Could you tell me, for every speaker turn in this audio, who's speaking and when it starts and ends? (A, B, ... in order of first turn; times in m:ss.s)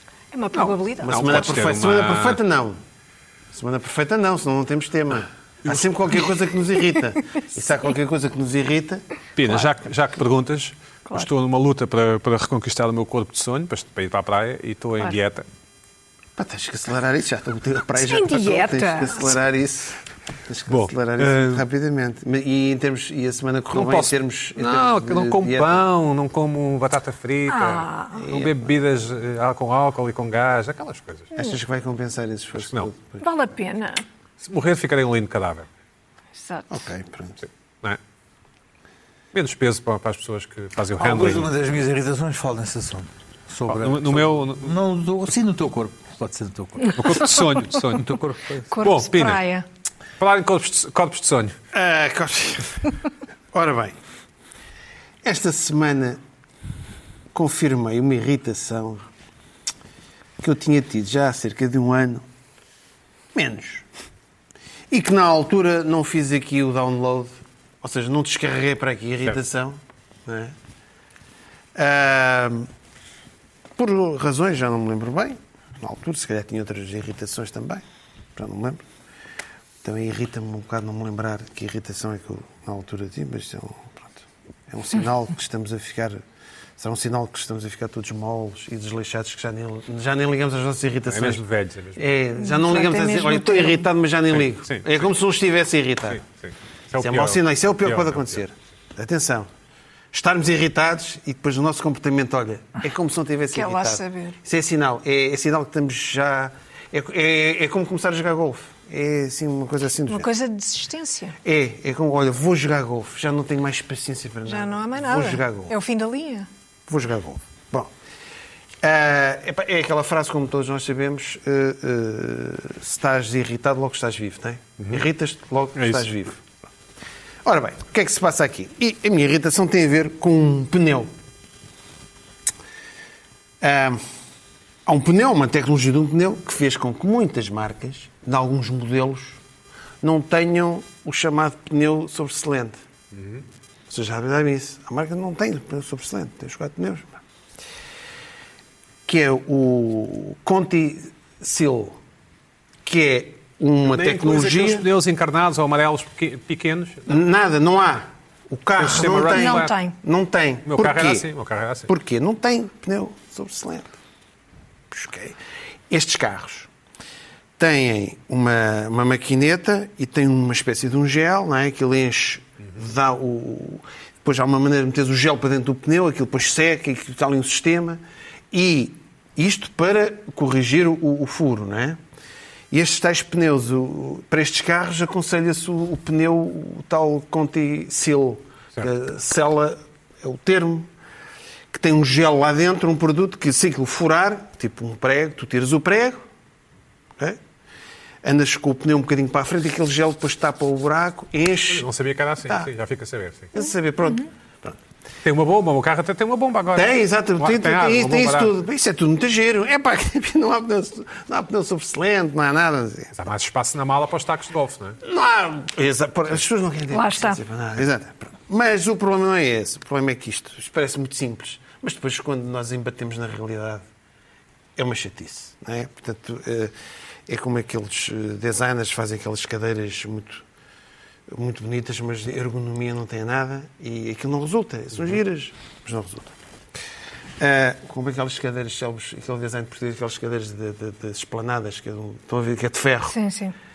0:00.3-0:01.5 A
0:00.5-0:02.4 B
0:01.0-0:02.8 C
0:03.5-0:09.0 C
0:05.6-0:06.3 B
0:09.4-0:15.4 B
0:16.4-0:25.8 C
0:18.0-0:19.4 A
0:20.7-0:21.6 B
0:23.7-0:31.3 B
0:27.5-0:28.3 A
0:28.1-0:28.6 C
0:31.4-0:33.2 C
0:32.6-0:32.9 B
0:33.2-0:34.0 A
0:34.4-0:35.7 B
0:36.4-0:36.8 A
0:36.7-0:37.4 C
0:37.4-0:38.0 B
0:39.3-0:41.5 B
0:41.0-0:48.7 D
0:43.7-0:44.8 B
0:46.9-0:48.1 B
0:48.7-0:49.6 A
0:48.7-0:49.4 B
0:50.2-0:51.6 B
0:51.7-0:53.0 C
0:53.5-0:53.9 C
0:55.2-0:56.2 C
0:57.3-0:59.1 C
1:00.4-1:02.2 C
1:03.3-1:03.8 C
1:04.9-1:10.6 C
1:11.7-1:12.7 C
1:13.8-1:17.8 C
1:18.4-1:18.8 C
1:19.8-1:26.2 C
1:26.8-1:31.4 C
1:31.1-1:32.0 B
1:32.0-1:36.2 C
1:32.4-1:33.8 A
1:34.4-1:35.0 B
1:36.1-1:38.4 B
1:37.0-1:39.5 C
1:40.1-1:50.3 C
1:43.5-1:44.4 A
1:50.1-1:51.4 A
1:51.4-1:55.7 C
1:54.4-1:56.5 A
1:56.9-1:57.9 C
1:58.8-2:06.4 C
2:05.8-2:06.1 B
2:07.4-2:11.1 C
2:13.6-2:14.0 C
2:14.8-2:19.4 C
2:20.0-2:22.8 C
2:23.1-2:23.4 B
2:23.9-2:27.2 C
2:29.1-2:32.0 C
2:32.8-2:34.8 C
2:33.9-2:37.1 B
2:37.1-2:41.3 C
2:38.8-2:39.8 B
2:39.3-2:39.9 A
2:40.7-2:41.9 B
2:41.9-2:43.9 C
2:44.9-2:45.4 C
2:45.9-2:46.7 C
2:47.6-3:02.0 C
3:02.7-3:10.9 C
3:11.7-3:16.2 C
3:18.2-3:21.9 C
3:21.7-3:23.5 B
3:23.5-3:24.8 C
3:25.2-3:28.5 B
3:26.7-3:33.2 C
3:33.1-3:35.0 B
3:35.0-3:43.8 C
3:36.9-3:37.4 A
3:44.8-3:46.7 C
3:47.3-3:50.4 C
3:51.3-3:56.3 C
3:57.4-4:03.2 C
4:03.1-4:03.5 A